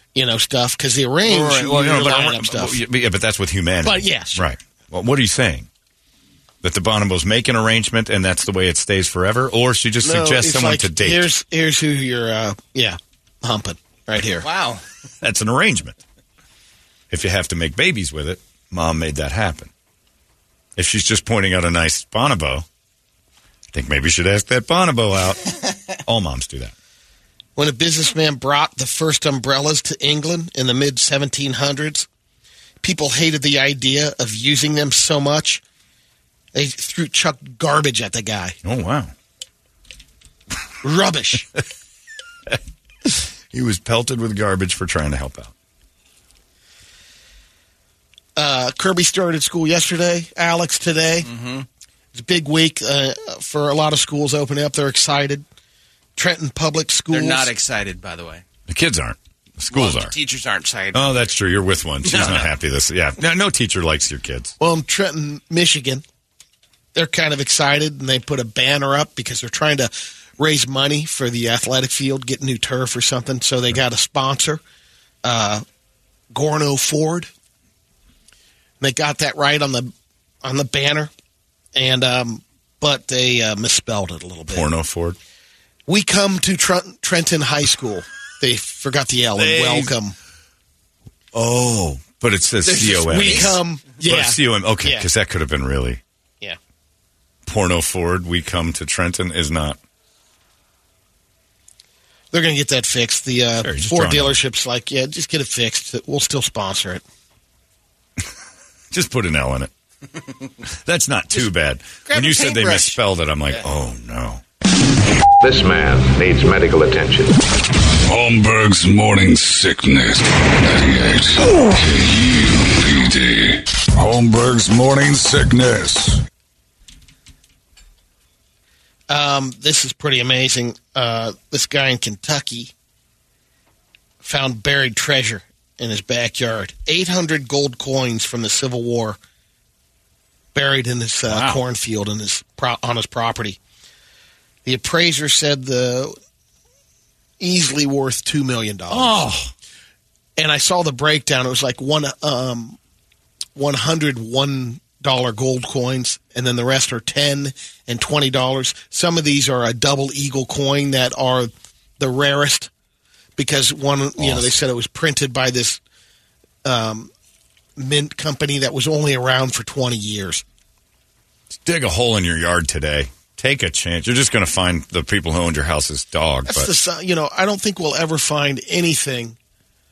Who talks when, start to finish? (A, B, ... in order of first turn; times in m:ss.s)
0:00.1-0:02.8 A
0:01.3-0:05.7 B
0:03.8-0:04.4 A
0:06.6-0:11.3 B
0:10.0-0:14.4 A
0:14.4-0:14.8 C
0:15.2-0:15.9 B
0:17.1-0:19.7 B
0:20.8-0:22.6 B
0:23.7-0:26.7 B
0:27.6-0:32.1 A
0:32.8-0:35.6 A
0:36.5-0:38.5 A
0:38.6-0:39.1 B
0:40.8-0:41.5 A
0:43.0-0:45.5 B
0:48.4-0:51.3 A
0:51.2-0:51.6 C
0:52.1-0:55.4 A
0:56.2-0:57.5 A
0:57.1-0:58.4 C
0:58.7-1:00.1 B
0:59.7-1:01.3 C
1:00.9-1:04.5 B
1:02.0-1:02.5 C
1:04.6-1:06.0 A
1:06.9-1:14.6 A
1:15.2-1:15.6 A
1:16.3-1:17.3 A
1:18.8-1:19.9 A
1:20.4-1:21.1 A
1:21.7-1:24.7 A
1:24.5-1:25.2 B
1:25.9-1:30.1 A
1:29.4-1:29.9 B
1:31.3-1:36.0 B
1:32.6-1:33.6 C
1:33.1-1:35.1 A
1:37.4-1:39.8 B
1:42.3-1:47.0 A
1:43.6-1:44.4 B
1:48.9-1:49.7 B
1:50.8-1:54.4 B
1:52.1-1:53.0 C
1:55.4-1:57.4 D
1:58.0-2:06.2 E
2:09.1-2:12.7 A
2:14.2-2:19.2 A
2:20.5-2:23.6 A
2:21.3-2:21.6 B
2:24.6-2:26.2 A
2:27.4-2:29.2 A
2:28.9-2:29.5 B
2:30.4-2:32.8 A
2:33.6-2:42.7 A
2:43.4-2:45.8 A
2:44.2-2:44.5 B
2:46.6-2:47.1 A
2:47.8-2:50.4 A
2:51.5-2:56.7 B
2:56.5-2:59.4 A